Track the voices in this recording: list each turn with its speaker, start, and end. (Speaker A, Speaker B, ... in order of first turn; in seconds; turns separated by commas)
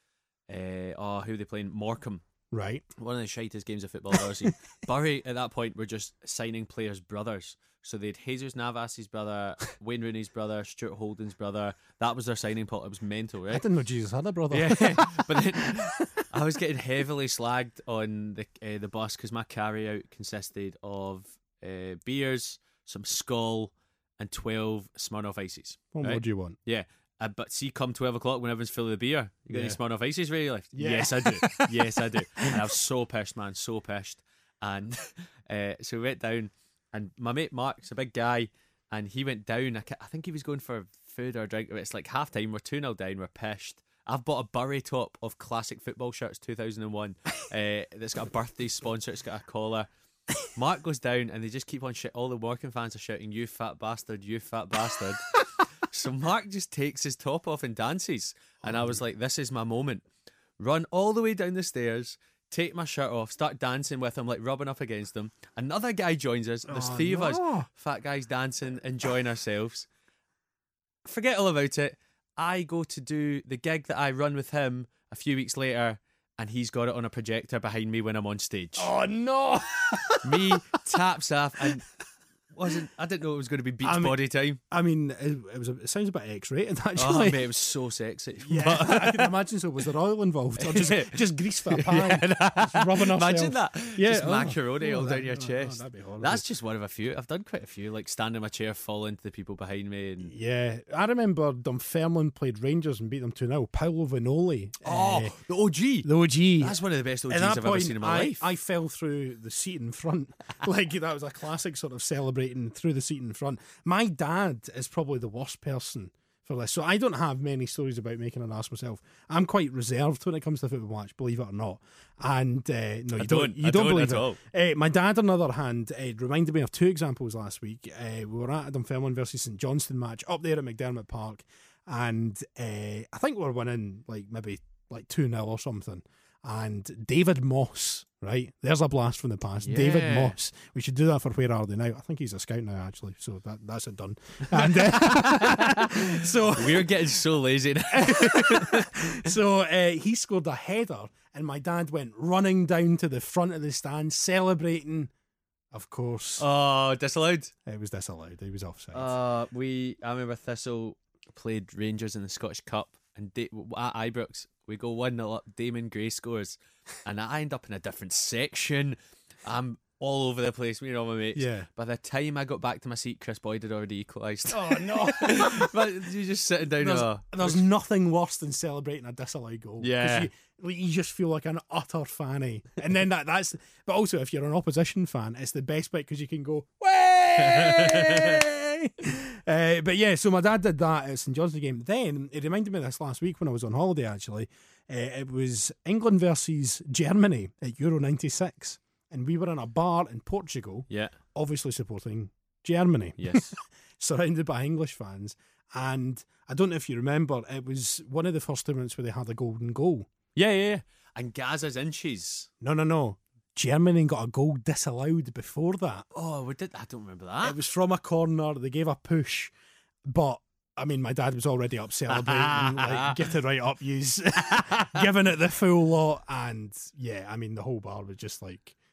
Speaker A: 0.5-2.2, Speaker B: 2.5-2.9, Speaker A: 3.0-13.7, Speaker B: 13.5-16.2, Speaker A: 14.5-49.9, Speaker B: 25.9-26.6, Speaker B: 29.5-29.8, Speaker B: 30.7-32.6, Speaker A: 50.5-55.3, Speaker A: 55.9-60.1, Speaker B: 58.6-59.0, Speaker A: 60.6-69.9, Speaker B: 66.7-67.7, Speaker A: 71.0-78.9, Speaker B: 78.8-80.8, Speaker A: 80.2-81.8, Speaker A: 82.5-84.6, Speaker B: 83.8-84.2, Speaker B: 84.7-87.4, Speaker A: 87.0-89.4, Speaker B: 88.4-96.4, Speaker A: 90.6-100.3, Speaker B: 100.3-105.4, Speaker A: 104.8-106.1, Speaker B: 106.0-147.0, Speaker A: 106.6-108.4, Speaker A: 123.2-124.4, Speaker A: 139.6-140.3, Speaker A: 144.5-149.3, Speaker B: 147.9-155.1, Speaker B: 155.7-156.4, Speaker A: 156.4-157.5, Speaker B: 157.7-159.1, Speaker A: 158.9-177.6, Speaker B: 171.4-171.7, Speaker B: 174.5-176.0, Speaker B: 176.8-210.1, Speaker A: 179.8-180.3, Speaker A: 187.4-188.4, Speaker A: 200.9-201.2, Speaker A: 203.2-203.5, Speaker A: 210.4-212.5, Speaker B: 212.6-216.1, Speaker A: 216.1-217.6, Speaker B: 217.4-219.5, Speaker B: 220.1-228.8, Speaker A: 222.1-223.2, Speaker A: 224.4-225.1